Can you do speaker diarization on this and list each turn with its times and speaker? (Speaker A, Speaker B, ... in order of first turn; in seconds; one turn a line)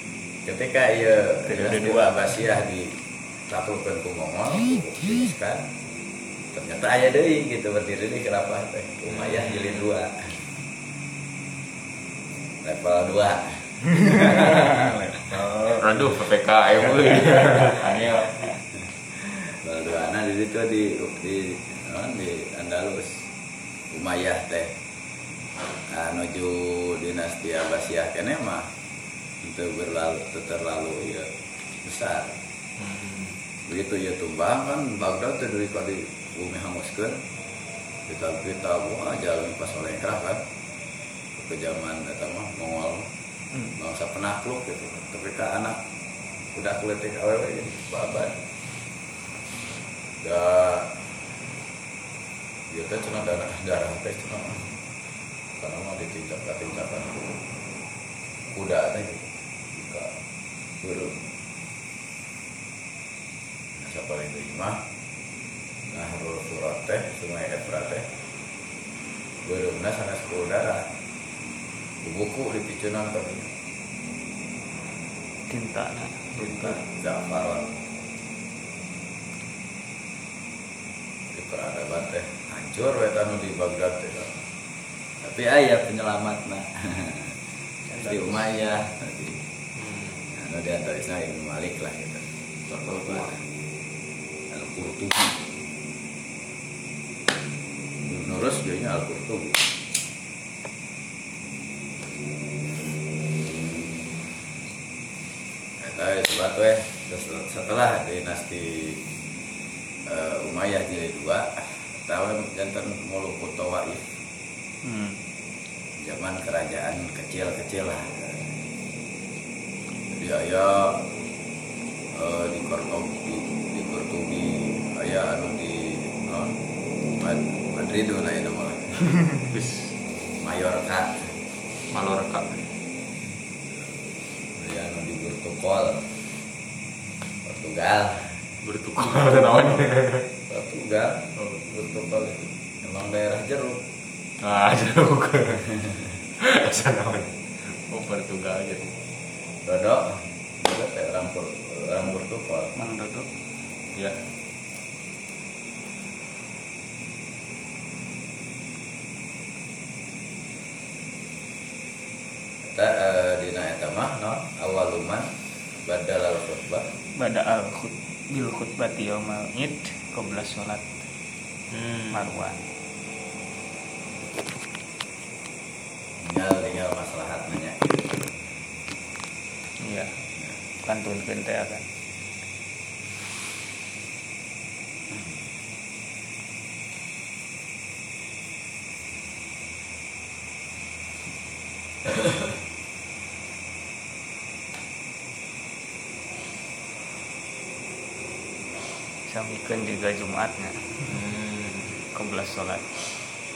Speaker A: 0.5-2.9
Speaker B: 1.5-2.2
Speaker A: 3.5-5.7
Speaker A: 6.5-10.3
Speaker C: 9.1-9.9
Speaker A: 12.6-14.7
Speaker B: 14.0-15.8
Speaker C: 14.4-14.8
Speaker C: 15.6-18.5
Speaker A: 19.5-23.2
Speaker A: 23.9-24.7
Speaker A: 25.9-28.6
Speaker A: 29.4-31.3
Speaker A: 31.8-32.3
Speaker C: 32.8-33.4
Speaker A: 33.7-37.2
Speaker A: 38.1-40.4
Speaker A: 41.4-43.1
Speaker A: 43.8-45.8
Speaker A: 46.5-48.4
Speaker A: 50.2-50.9
Speaker A: 52.7-54.7
Speaker A: 55.6-57.3
Speaker A: 58.5-60.1
Speaker A: 60.8-61.2
Speaker A: 63.8-64.8
Speaker A: 65.9-68.0
Speaker A: 69.4-70.8
Speaker A: 72.0-73.5
Speaker B: 75.5-76.8
Speaker A: 76.5-77.6
Speaker A: 81.3-84.4
Speaker A: 85.2-87.3
Speaker B: 87.9-88.4
Speaker A: 88.0-89.4
Speaker C: 89.8-90.2
Speaker A: 90.3-93.4
Speaker A: 94.5-95.4
Speaker A: 98.0-99.6
Speaker A: 105.8-109.0
Speaker A: 110.1-114.0
Speaker B: 114.8-115.2
Speaker A: 116.0-118.1
Speaker A: 120.1-121.0
Speaker A: 122.1-126.5
Speaker A: 127.2-129.1
Speaker C: 129.5-129.9
Speaker A: 130.4-131.3
Speaker C: 131.9-132.6
Speaker A: 134.5-136.1
Speaker A: 137.4-138.3
Speaker C: 138.6-140.3
Speaker A: 139.1-139.4
Speaker A: 140.5-143.8
Speaker C: 141.3-141.6
Speaker C: 144.4-145.8
Speaker C: 146.4-148.9
Speaker A: 149.7-152.7
Speaker B: 152.8-153.3
Speaker C: 153.9-154.2
Speaker A: 162.7-165.3
Speaker A: 165.8-166.9
Speaker B: 167.2-170.9
Speaker C: 171.7-172.3
Speaker B: 172.1-172.6
Speaker A: 176.2-178.4
Speaker B: 179.8-180.2
Speaker B: 180.8-181.9
Speaker B: 199.3-201.0
Speaker C: 201.0-202.0
Speaker B: 202.1-203.0